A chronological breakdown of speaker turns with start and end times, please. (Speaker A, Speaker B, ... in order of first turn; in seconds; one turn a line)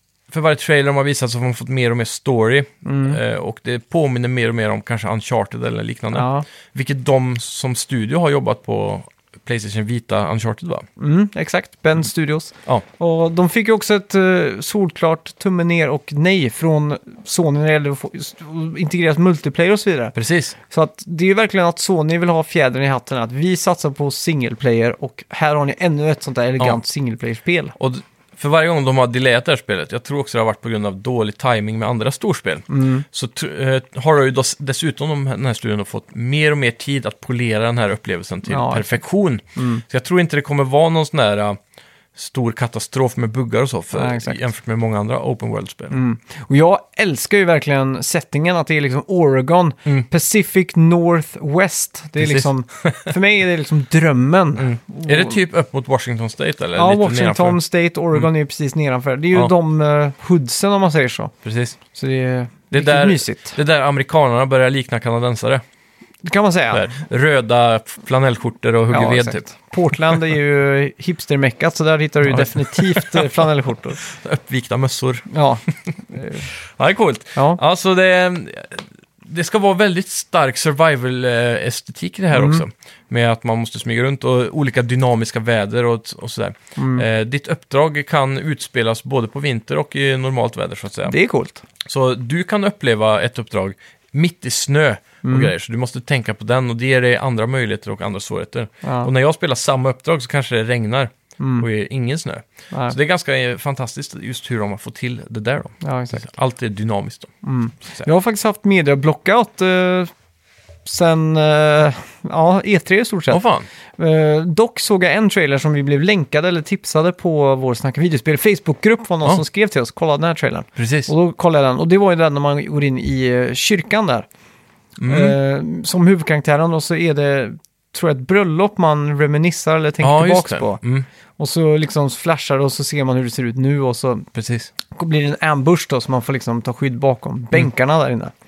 Speaker A: 0.3-10.9
Speaker B: 2.8-3.2
Speaker B: 6.1-6.5
Speaker B: 11.0-20.2
Speaker A: 20.1-20.6
Speaker B: 20.7-27.8
Speaker A: 27.8-41.6
Speaker B: 32.7-33.0
Speaker B: 38.5-38.9
Speaker B: 39.6-39.8
Speaker A: 42.1-46.0
Speaker B: 43.9-44.4
Speaker B: 45.9-55.4
Speaker A: 52.2-53.1
Speaker A: 54.6-57.6
Speaker B: 56.8-61.3
Speaker A: 61.4-61.8
Speaker B: 61.9-63.6
Speaker A: 62.7-65.6
Speaker B: 66.2-66.9
Speaker A: 66.7-69.4
Speaker B: 68.9-74.0
Speaker A: 72.3-75.3
Speaker B: 75.3-76.5
Speaker A: 76.5-91.1
Speaker B: 82.3-82.7
Speaker B: 86.8-87.1
Speaker B: 91.1-91.6
Speaker A: 91.8-107.3
Speaker B: 95.2-95.5
Speaker B: 98.8-99.1
Speaker B: 101.4-101.7
Speaker B: 102.7-103.0
Speaker B: 105.8-106.3
Speaker B: 107.4-110.1
Speaker B: 110.9-113.4
Speaker A: 113.3-113.7
Speaker B: 114.0-124.3
Speaker A: 120.8-121.1
Speaker A: 125.0-125.4
Speaker B: 125.0-130.8
Speaker A: 130.0-131.1
Speaker B: 131.4-134.3
Speaker A: 134.3-134.7
Speaker B: 134.9-138.3